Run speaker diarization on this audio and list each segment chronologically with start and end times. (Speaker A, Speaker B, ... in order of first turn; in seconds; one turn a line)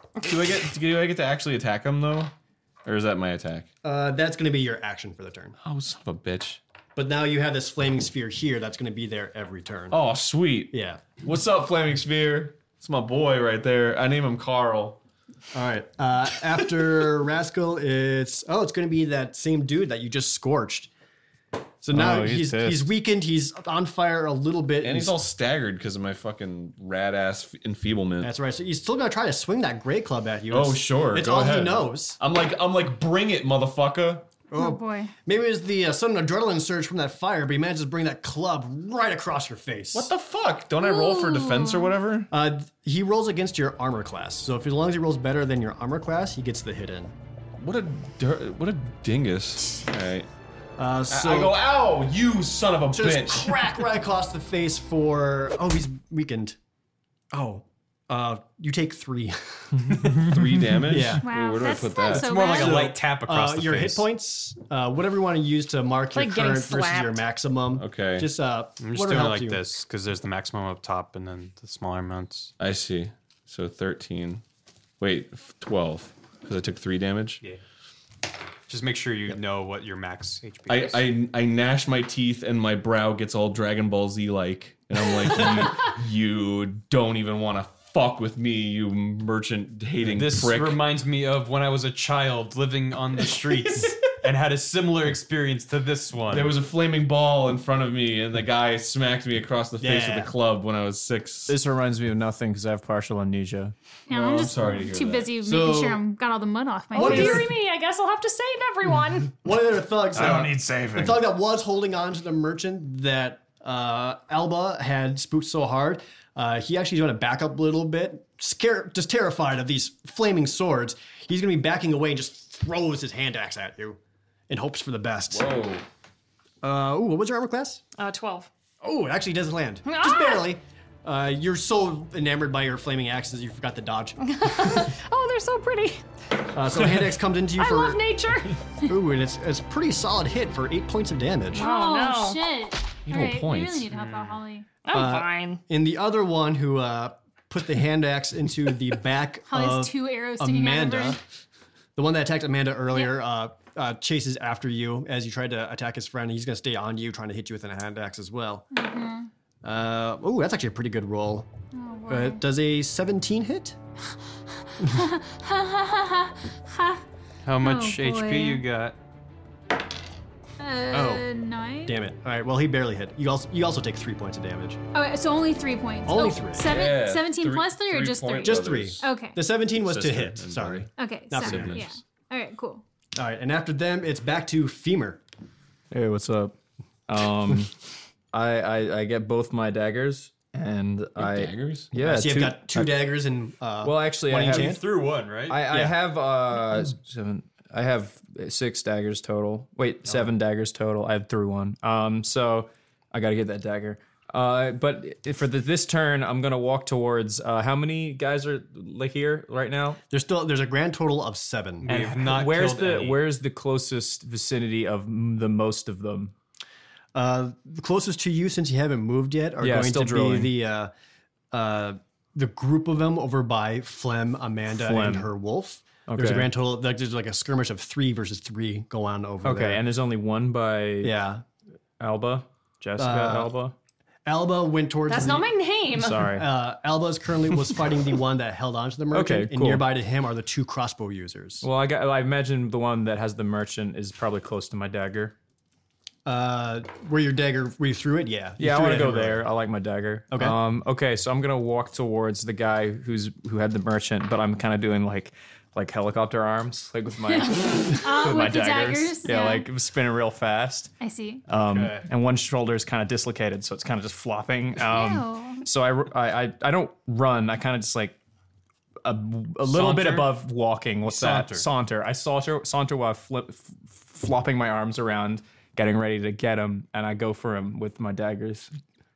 Speaker A: 0.2-2.3
Speaker A: 2.9-3.7
Speaker B: 3.8-5.5
Speaker A: 5.6-6.6
Speaker B: 7.0-10.0
Speaker A: 9.9-15.0
Speaker B: 10.7-11.0
Speaker B: 15.5-20.9
Speaker B: 21.8-25.2
Speaker C: 21.9-22.9
Speaker A: 24.8-28.3
Speaker B: 28.2-32.2
Speaker A: 30.5-34.4
Speaker B: 34.5-40.1
Speaker D: 34.5-35.1
Speaker A: 39.9-42.3
Speaker D: 40.8-41.9
Speaker B: 42.3-47.1
Speaker A: 47.6-50.3
Speaker B: 50.8-51.6
Speaker A: 51.1-53.6
Speaker B: 52.9-56.6
Speaker B: 57.3-60.1
Speaker A: 60.1-62.5
Speaker B: 60.9-61.2
Speaker D: 61.2-62.9
Speaker E: 62.1-64.0
Speaker B: 62.5-69.7
Speaker F: 66.1-67.2
Speaker A: 67.8-68.3
Speaker E: 68.8-72.5
Speaker A: 72.6-74.4
Speaker A: 75.0-77.4
Speaker E: 78.7-81.1
Speaker A: 80.7-90.8
Speaker E: 90.0-96.6
Speaker A: 96.3-101.6
Speaker B: 99.8-100.3
Speaker C: 101.5-103.7
Speaker D: 104.1-107.5
Speaker A: 104.1-105.3
Speaker B: 105.4-106.0
Speaker B: 106.9-107.5
Speaker F: 106.9-109.4
Speaker B: 109.4-125.5
Speaker E: 110.2-111.2
Speaker A: 125.3-125.8
Speaker B: 126.6-127.8
Speaker F: 128.0-128.5
Speaker B: 128.8-134.3
Speaker F: 129.8-130.5
Speaker F: 134.2-136.0
Speaker B: 136.5-138.0
Speaker F: 137.6-138.6
Speaker B: 138.8-141.7
Speaker F: 141.5-142.4
Speaker D: 141.5-144.7
Speaker A: 143.1-143.9
Speaker E: 143.9-144.4
Speaker F: 144.8-145.6
Speaker B: 144.9-151.2
Speaker D: 149.5-151.2
Speaker B: 152.0-158.7
Speaker D: 158.7-159.3
Speaker B: 159.6-161.5
Speaker D: 161.7-162.4
Speaker B: 162.1-163.8
Speaker D: 164.8-167.0
Speaker E: 167.4-169.0
Speaker D: 167.6-168.6
Speaker D: 170.6-172.0
Speaker B: 170.9-171.2
Speaker B: 171.8-174.8
Speaker D: 174.9-179.4
Speaker B: 176.1-176.7
Speaker A: 176.6-179.1
Speaker B: 178.4-181.8
Speaker A: 179.8-181.9
Speaker D: 181.0-182.8
Speaker B: 183.2-185.2
Speaker C: 185.9-186.5
Speaker C: 187.1-187.7
Speaker C: 188.3-193.0
Speaker A: 191.2-191.9
Speaker B: 192.0-194.8
Speaker C: 193.8-194.8
Speaker E: 194.4-195.6
Speaker C: 195.5-210.0
Speaker B: 195.7-196.0
Speaker B: 210.1-211.9
Speaker E: 211.8-213.2
Speaker C: 211.9-216.3
Speaker B: 217.1-220.9
Speaker C: 219.6-220.5
Speaker B: 221.5-229.8
Speaker C: 224.7-225.3
Speaker C: 226.1-226.5
Speaker C: 229.4-231.2
Speaker B: 231.0-231.4
Speaker C: 232.0-233.8
Speaker B: 233.0-233.5
Speaker B: 234.3-235.5
Speaker F: 235.1-236.3
Speaker C: 235.9-236.5
Speaker B: 236.2-241.7
Speaker C: 239.1-239.9
Speaker C: 241.6-245.3
Speaker B: 246.2-249.4
Speaker C: 248.6-260.9
Speaker B: 250.3-250.6
Speaker D: 257.4-259.7
Speaker D: 261.0-261.4
Speaker C: 261.5-268.2
Speaker E: 261.5-262.1
Speaker D: 264.8-265.6
Speaker C: 269.0-278.7
Speaker E: 269.7-270.3
Speaker E: 271.1-271.7